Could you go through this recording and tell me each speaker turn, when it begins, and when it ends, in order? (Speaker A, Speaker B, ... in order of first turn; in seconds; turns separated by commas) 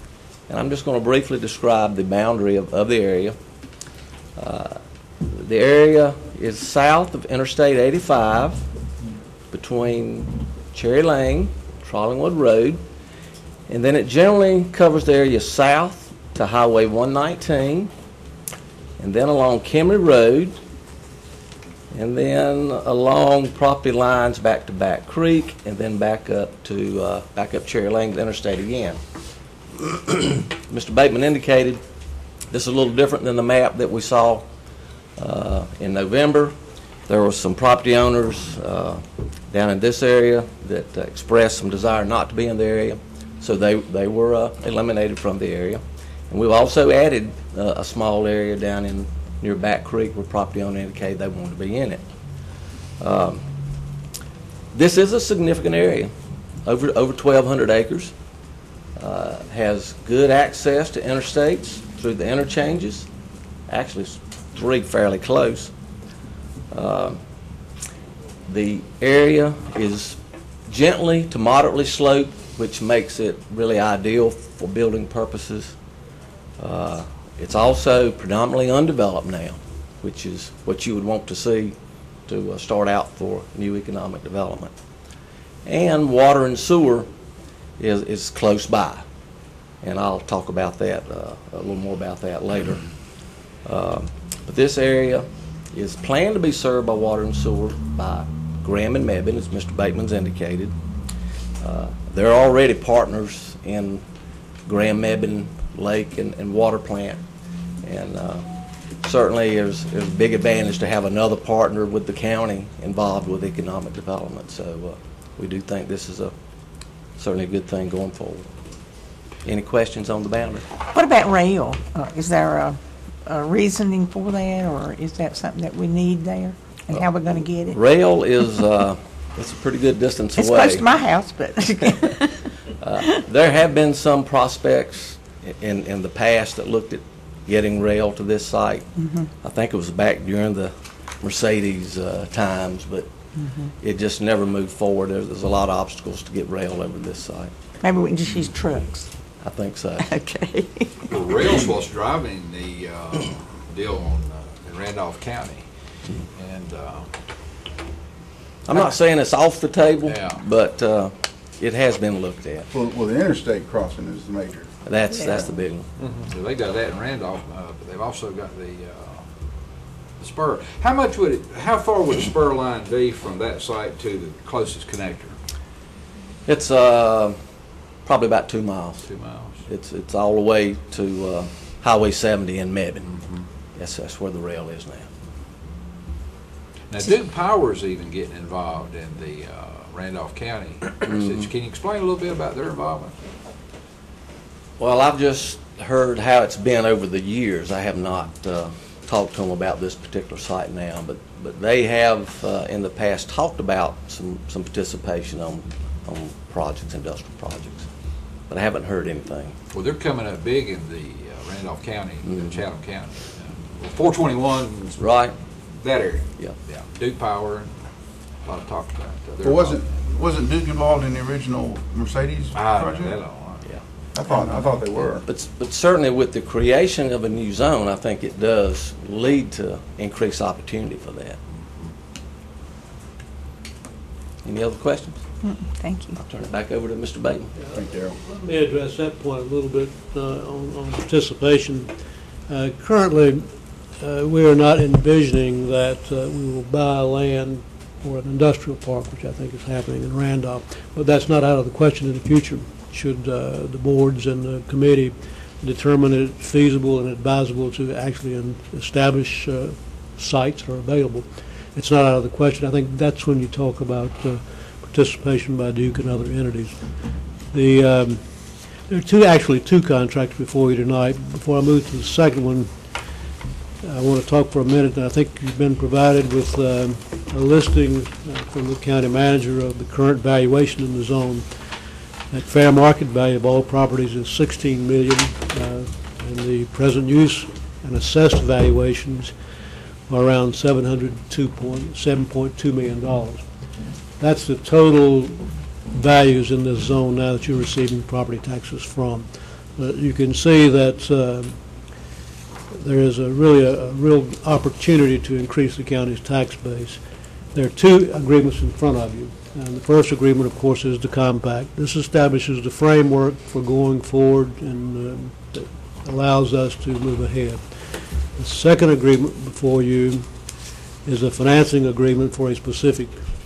Speaker A: 0.5-3.4, Speaker A: 4.3-8.6, Speaker A: 9.5-12.8, Speaker A: 13.7-17.9, Speaker A: 19.0-20.6, Speaker A: 21.9-29.0, Speaker A: 30.6-31.8, Speaker A: 32.5-34.5, Speaker A: 35.2-36.5, Speaker A: 37.1-52.0, Speaker A: 53.0-53.4, Speaker A: 54.7-56.1, Speaker A: 56.6-58.1, Speaker A: 59.0-63.1, Speaker A: 63.7-65.7, Speaker A: 66.7-67.2, Speaker A: 68.5-75.7, Speaker A: 76.6-84.7, Speaker A: 85.6-87.1, Speaker A: 87.8-89.0, Speaker A: 89.8-92.8, Speaker A: 93.6-100.7, Speaker A: 101.6-104.0, Speaker A: 104.7-107.2, Speaker A: 107.8-108.5, Speaker A: 109.0-116.3, Speaker A: 117.1-118.5, Speaker A: 119.4-120.6, Speaker B: 120.9-127.8, Speaker A: 127.7-130.9, Speaker B: 130.3-132.4, Speaker A: 132.8-138.8, Speaker B: 138.9-139.3, Speaker A: 139.4-143.1, Speaker B: 143.3-143.7, Speaker A: 143.8-147.5, Speaker B: 147.8-149.1, Speaker A: 149.4-150.0, Speaker B: 150.0-150.9, Speaker C: 151.1-155.7, Speaker C: 156.3-157.1, Speaker A: 158.6-162.7, Speaker C: 160.1-160.4, Speaker D: 162.7-164.7, Speaker A: 164.8-165.8, Speaker B: 165.1-165.6, Speaker C: 166.0-169.2, Speaker C: 170.2-175.3, Speaker A: 176.4-177.4, Speaker A: 178.0-179.1, Speaker C: 179.0-179.6, Speaker A: 179.7-183.1, Speaker C: 183.0-183.4, Speaker A: 183.7-185.1, Speaker C: 186.9-193.2, Speaker A: 190.8-191.5, Speaker A: 194.8-207.9, Speaker A: 208.5-209.5, Speaker C: 209.7-215.0, Speaker A: 212.2-212.6, Speaker A: 215.0-215.3, Speaker C: 215.8-217.7, Speaker C: 218.4-219.8, Speaker D: 219.4-223.1, Speaker C: 222.5-223.6, Speaker A: 223.7-231.4, Speaker D: 224.1-225.2, Speaker A: 234.4-235.2, Speaker B: 235.4-236.2, Speaker A: 236.2-237.5, Speaker E: 237.6-241.9, Speaker D: 237.7-238.2, Speaker E: 242.5-273.0, Speaker E: 273.8-281.6, Speaker E: 282.3-289.3, Speaker E: 290.1-293.4, Speaker E: 294.2-301.6, Speaker E: 302.7-307.0, Speaker E: 307.5-320.3, Speaker E: 321.0-323.2